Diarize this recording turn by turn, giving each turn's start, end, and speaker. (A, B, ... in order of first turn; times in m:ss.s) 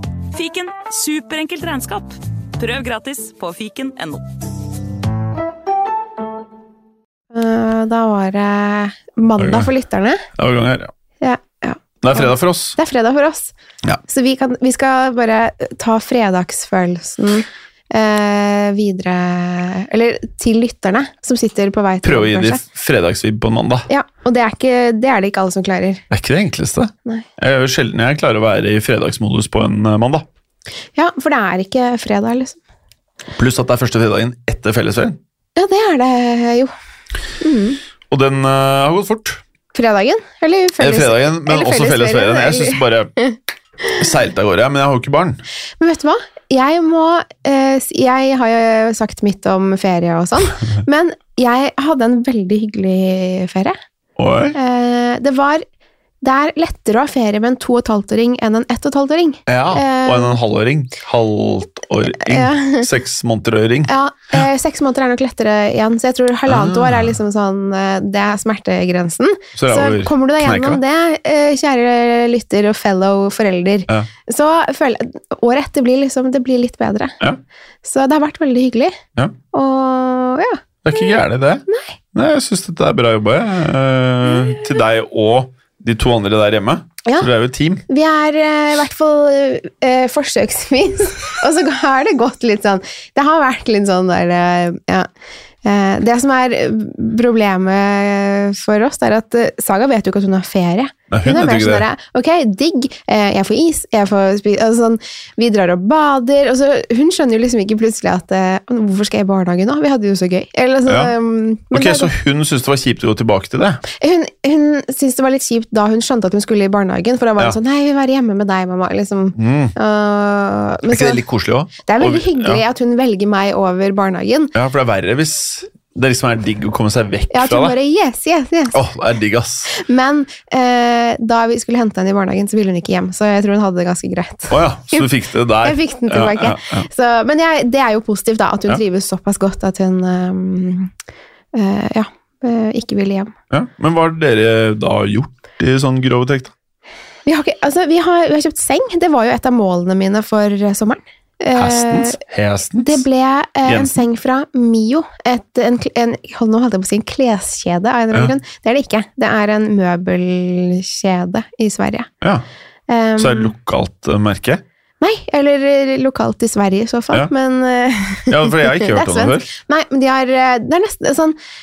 0:00.3-0:04.2 A
0:07.3-0:10.2 B
0:09.4-0:09.7 C
0:10.4-0:10.9 C
0:11.2-0:13.5 B
0:12.0-0:12.8 C
0:14.0-0:22.6 B
0:22.0-0:23.9 C
0:23.9-0:26.0 B
0:26.1-0:30.2 C
0:30.9-0:32.6 B
0:33.3-0:35.2 C
0:35.6-0:36.7 B
0:37.4-0:37.8 B
0:38.1-0:39.4 C
0:39.7-0:44.0 B
0:40.8-0:43.1 C
0:44.0-0:45.4 C
0:45.8-0:53.8 B
0:54.2-0:54.6 C
0:54.5-0:55.6 B
0:56.2-1:00.4 B
0:59.5-1:04.4 C
1:02.2-1:02.9 B
1:03.9-1:17.2 B
1:06.5-1:07.2 C
1:09.5-1:10.8 C
1:17.8-1:19.0 B
1:19.5-1:20.6 B
1:20.8-1:27.8 C
1:21.7-1:22.0 B
1:27.9-1:35.1 B
1:35.6-1:52.1 B
1:41.1-1:41.8 C
1:50.8-1:51.1 C
1:51.7-1:53.8 C
1:53.9-2:01.2 B
1:59.4-1:59.7 C
2:00.9-2:02.6 C
2:01.8-2:04.5 B
2:04.5-2:07.7 C
2:07.3-2:08.8 B
2:08.7-2:09.7 C
2:09.7-2:15.1 B
2:14.5-2:16.9 C
2:15.6-2:20.9 B
2:21.5-2:23.3 B
2:23.5-2:26.5 C
2:27.2-2:32.2 B
2:31.5-2:33.0 C
2:32.8-2:42.1 B
2:33.6-2:34.0 C
2:42.9-2:43.5 B
2:43.2-2:44.6 C
2:45.0-2:51.4 B
2:48.3-2:49.5 C